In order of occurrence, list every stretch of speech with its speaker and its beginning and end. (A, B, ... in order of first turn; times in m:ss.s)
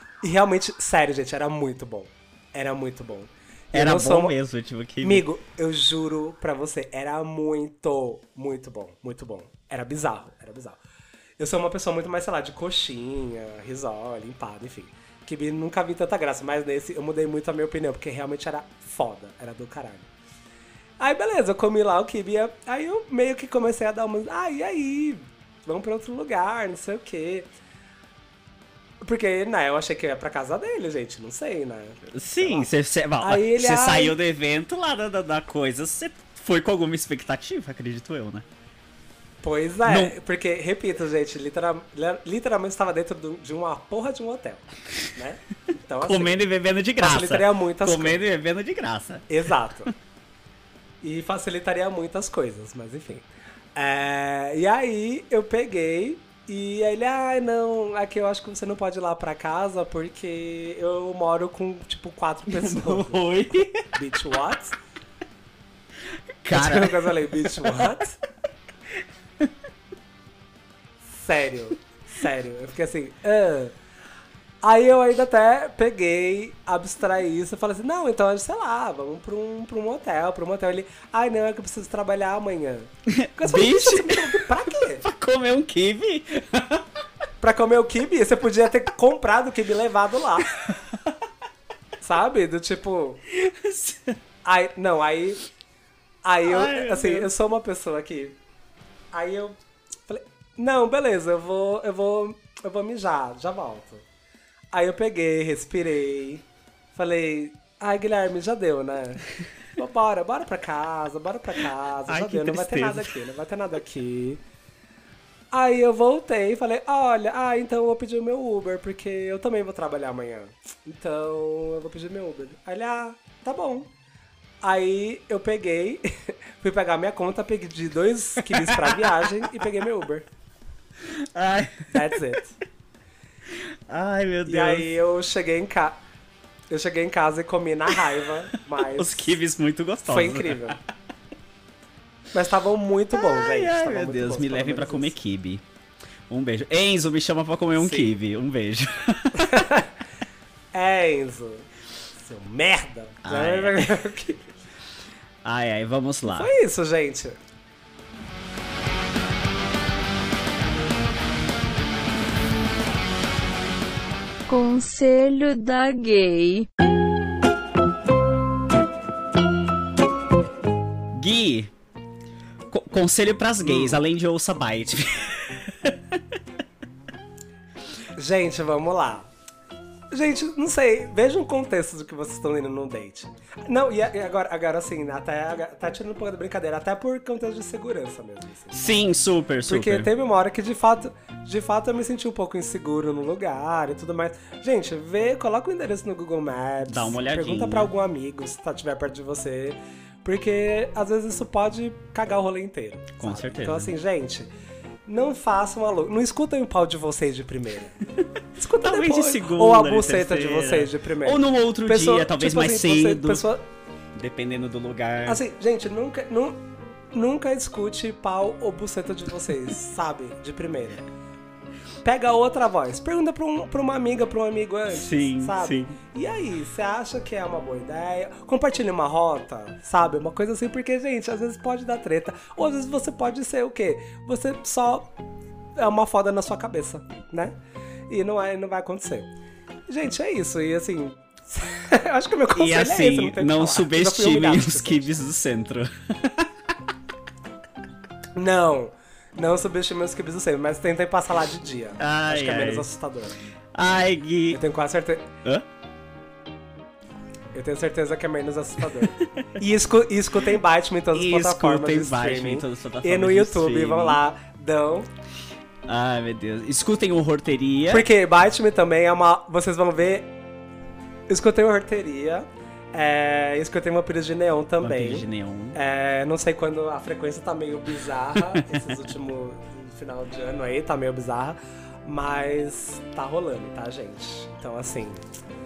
0:00.2-0:04.3 A
0:03.7-0:05.2 B
0:05.0-0:10.8 A
0:11.4-0:20.1 A
0:21.0-0:27.5 A
0:29.0-0:32.7 A
0:32.1-0:38.4 B
0:33.2-0:34.2 A
0:39.4-0:46.4 A
0:39.8-0:40.1 B
0:46.0-0:49.3 B
0:47.0-0:48.2 A
0:49.3-0:49.9 A
0:51.0-1:03.2 A
1:02.5-1:03.8 B
1:03.9-1:04.8 A
1:06.4-1:07.9 B
1:06.5-1:08.2 A
1:11.1-1:13.7 A
1:14.6-1:25.1 A
1:23.2-1:26.8 B
1:27.4-1:30.5 A
1:30.6-1:31.1 B
1:32.0-1:33.2 A
1:33.3-1:34.1 B
1:34.4-1:35.4 A
1:36.2-1:38.4 A
1:36.4-1:37.3 B
1:39.1-1:44.0 A
1:44.7-1:49.2 A
1:49.8-1:54.4 A
1:52.1-1:53.2 B
1:55.5-2:03.9 A
2:04.6-2:10.3 A
2:08.4-2:09.6 B
2:11.3-2:12.1 B
2:11.9-2:12.5 A
2:13.5-2:14.9 B
2:14.4-2:16.0 A
2:16.7-2:19.4 A
2:19.0-2:20.8 B
2:20.0-2:20.8 A
2:22.3-2:25.2 A
2:23.1-2:25.6 B
2:26.3-2:29.7 B
2:27.7-2:28.2 A
2:29.4-2:29.9 A
2:30.7-2:34.5 A
2:33.2-2:34.0 B
2:35.4-2:36.5 B
2:36.2-2:37.4 A
2:44.5-2:46.7 C
2:51.1-2:51.7 B
2:52.7-2:56.2 B
2:53.6-2:54.0 A
2:58.2-2:59.3 A
3:00.1-3:09.0 A
3:08.7-3:10.1 B
3:09.7-3:24.5 A
3:16.9-3:17.9 B
3:23.2-3:23.9 B
3:25.1-3:28.0 A
3:28.5-3:33.6 A
3:28.8-3:33.5 B
3:34.2-3:35.4 B
3:35.2-3:36.6 A
3:37.1-3:41.0 A
3:42.0-3:55.1 A
3:44.9-3:46.0 B
3:55.8-3:57.5 A
3:58.1-3:59.3 A
3:59.9-4:05.1 A
4:02.5-4:06.5 B
4:08.3-4:13.4 A
4:12.0-4:12.9 B
4:13.7-4:14.6 B
4:14.5-4:15.3 A
4:17.5-4:25.1 A
4:18.9-4:19.5 B
4:21.1-4:24.2 B
4:25.9-4:28.0 B
4:27.9-4:30.3 A
4:31.3-4:45.2 A
4:34.8-4:35.8 B
4:38.4-4:38.8 B